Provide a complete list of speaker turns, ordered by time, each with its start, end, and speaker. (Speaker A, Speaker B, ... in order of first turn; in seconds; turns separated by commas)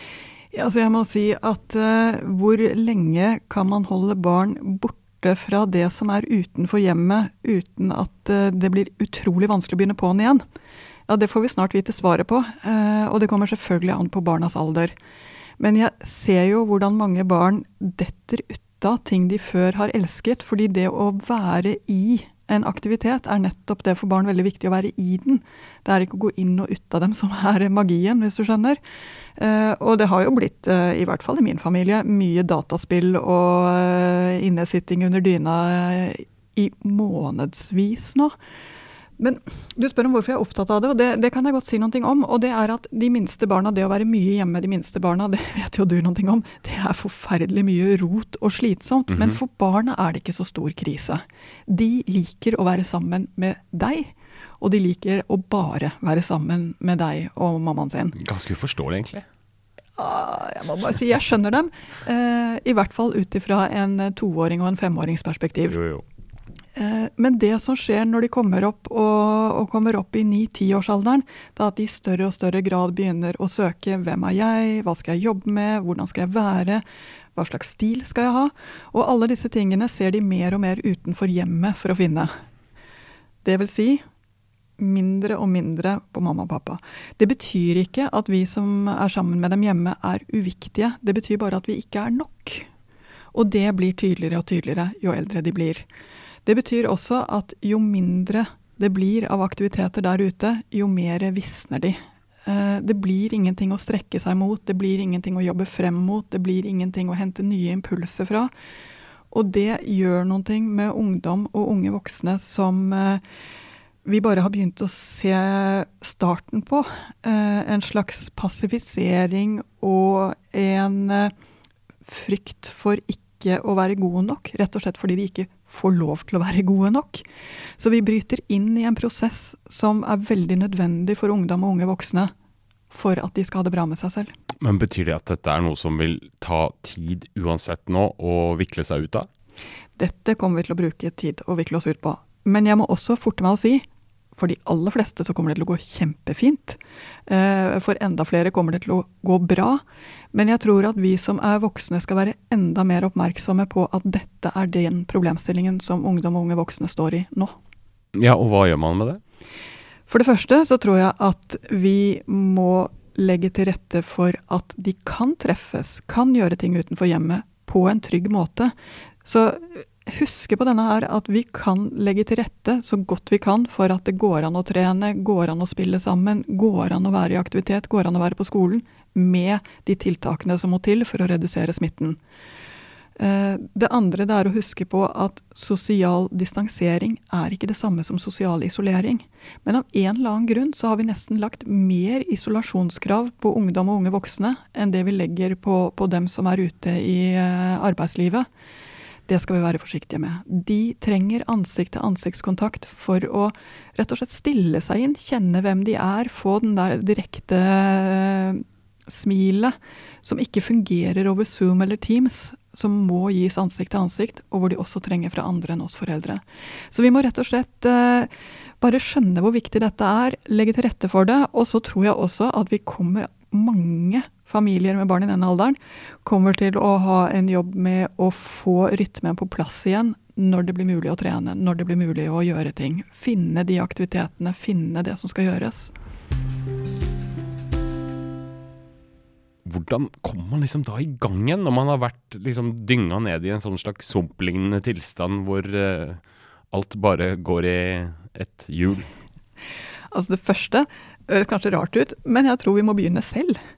Speaker A: 0.5-10.4, Speaker A: 11.1-14.9, Speaker A: 15.6-28.8, Speaker A: 29.4-38.3, Speaker A: 39.2-58.1, Speaker B: 49.1-49.4, Speaker B: 58.1-59.2, Speaker A: 60.0-65.8, Speaker B: 65.7-66.0, Speaker A: 66.8-76.8, Speaker A: 77.3-82.3, Speaker A: 83.4-84.0, Speaker A: 84.8-92.7, Speaker A: 93.3-95.8, Speaker A: 96.5-108.5, Speaker A: 109.3-113.2, Speaker A: 114.0-121.3, Speaker A: 122.0-127.2, Speaker A: 127.8-132.3, Speaker A: 132.9-134.3, Speaker B: 134.6-139.3, Speaker A: 140.0-143.8, Speaker A: 144.4-157.5, Speaker B: 158.1-159.2, Speaker A: 160.1-182.2, Speaker A: 183.2-198.5, Speaker A: 199.3-218.3, Speaker A: 218.8-235.9, Speaker B: 239.6-249.1, Speaker A: 250.1-253.6